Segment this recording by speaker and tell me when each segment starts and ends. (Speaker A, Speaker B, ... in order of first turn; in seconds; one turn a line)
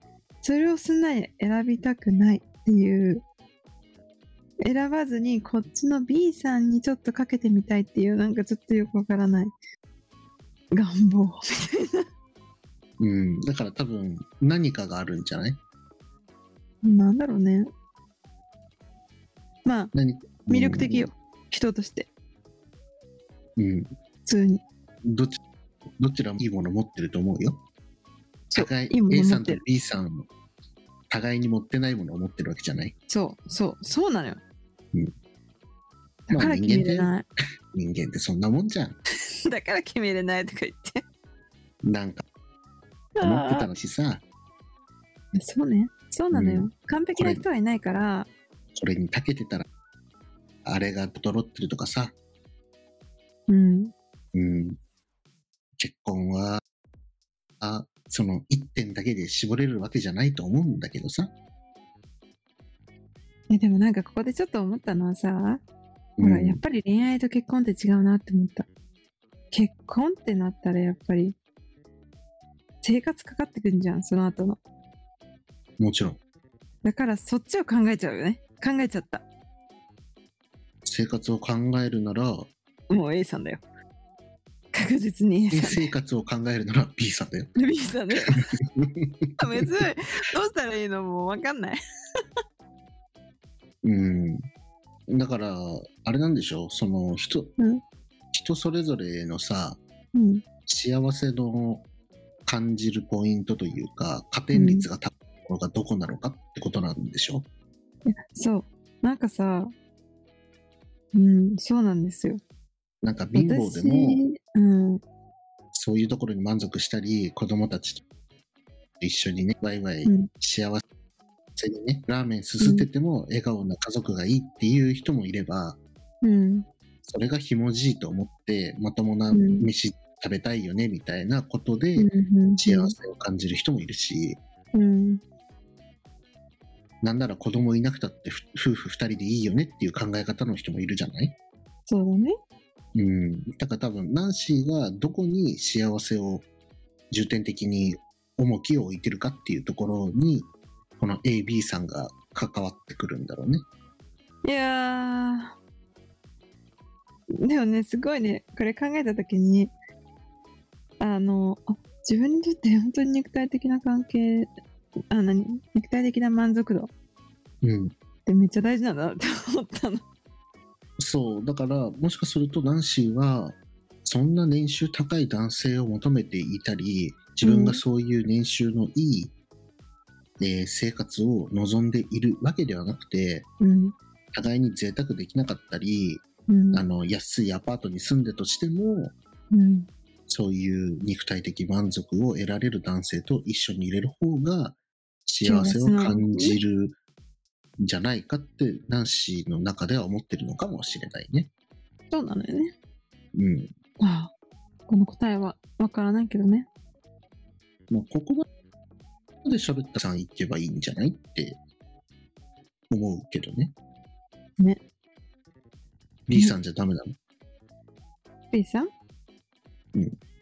Speaker A: 0.4-3.2
Speaker A: 4.6-9.5
Speaker A: 10.7-12.1
Speaker B: 13.0-15.6
Speaker A: 16.8-17.7
Speaker A: 19.6-19.9
Speaker B: 19.9-21.1
Speaker A: 20.5-22.1
Speaker B: 23.6-23.9
Speaker A: 24.2-24.6
Speaker B: 25.0-25.4
Speaker B: 26.0-27.6
Speaker A: 28.5-29.6
Speaker B: 28.6-30.3
Speaker B: 31.1-32.9
Speaker A: 33.1-34.4
Speaker A: 36.3-37.2
Speaker B: 36.3-37.1
Speaker B: 37.7-39.0
Speaker A: 39.5-41.0
Speaker B: 41.8-42.2
Speaker A: 43.2-43.7
Speaker B: 43.2-44.2
Speaker A: 45.3-48.3
Speaker B: 46.3-47.4
Speaker B: 48.7-49.6
Speaker B: 50.6-52.1
Speaker A: 53.5-53.9
Speaker B: 54.3-54.8
Speaker B: 55.8-56.6
Speaker B: 57.6-61.3
Speaker A: 63.5-65.6
Speaker B: 66.2-66.6
Speaker A: 66.2-68.7
Speaker A: 69.5-71.3
Speaker A: 72.8-74.6
Speaker B: 75.8-76.2
Speaker A: 76.8-79.2
Speaker B: 80.8-82.5
Speaker A: 82.9-83.6
Speaker A: 84.7-85.9
Speaker B: 85.5-87.5
Speaker A: 87.5-88.5
Speaker B: 88.3-89.7
Speaker A: 89.4-91.8
Speaker B: 93.8-94.5
Speaker B: 95.1-97.5
Speaker B: 98.3-99.8
Speaker A: 100.1-100.4
Speaker B: 100.7-101.8
Speaker B: 102.5-107.5
Speaker A: 104.5-104.9
Speaker A: 108.0-109.7
Speaker A: 111.1-112.4
Speaker B: 113.0-114.2
Speaker A: 113.3-115.0
Speaker B: 115.7-118.0
Speaker B: 119.0-120.8
Speaker B: 121.5-125.8
Speaker A: 122.6-122.9
Speaker A: 126.2-126.7
Speaker B: 127.0-134.4
Speaker A: 129.3-129.7
Speaker A: 132.0-132.9
Speaker A: 134.7-135.2
Speaker B: 137.0-141.3
Speaker A: 141.9-142.3
Speaker B: 142.9-146.5
Speaker B: 147.1-153.6
Speaker A: 154.4-155.6
Speaker A: 157.4-159.7
Speaker A: 161.0-164.5
Speaker A: 165.1-166.9
Speaker B: 167.6-167.9
Speaker A: 168.2-170.0
Speaker B: 171.0-179.3
Speaker A: 177.4-177.8
Speaker B: 180.4-183.5
Speaker A: 183.6-183.9
Speaker B: 184.3-189.1
Speaker A: 186.5-186.8
Speaker A: 189.5-189.9
Speaker B: 190.3-196.9
Speaker A: 195.4-196.6
Speaker B: 197.8-201.5
Speaker A: 202.1-202.7
Speaker B: 203.3-203.7
Speaker A: 204.0-204.3
Speaker A: 204.9-206.7
Speaker B: 207.9-208.4
Speaker B: 209.4-211.6
Speaker B: 212.9-213.7
Speaker B: 216.3-217.2
Speaker A: 218.5-218.9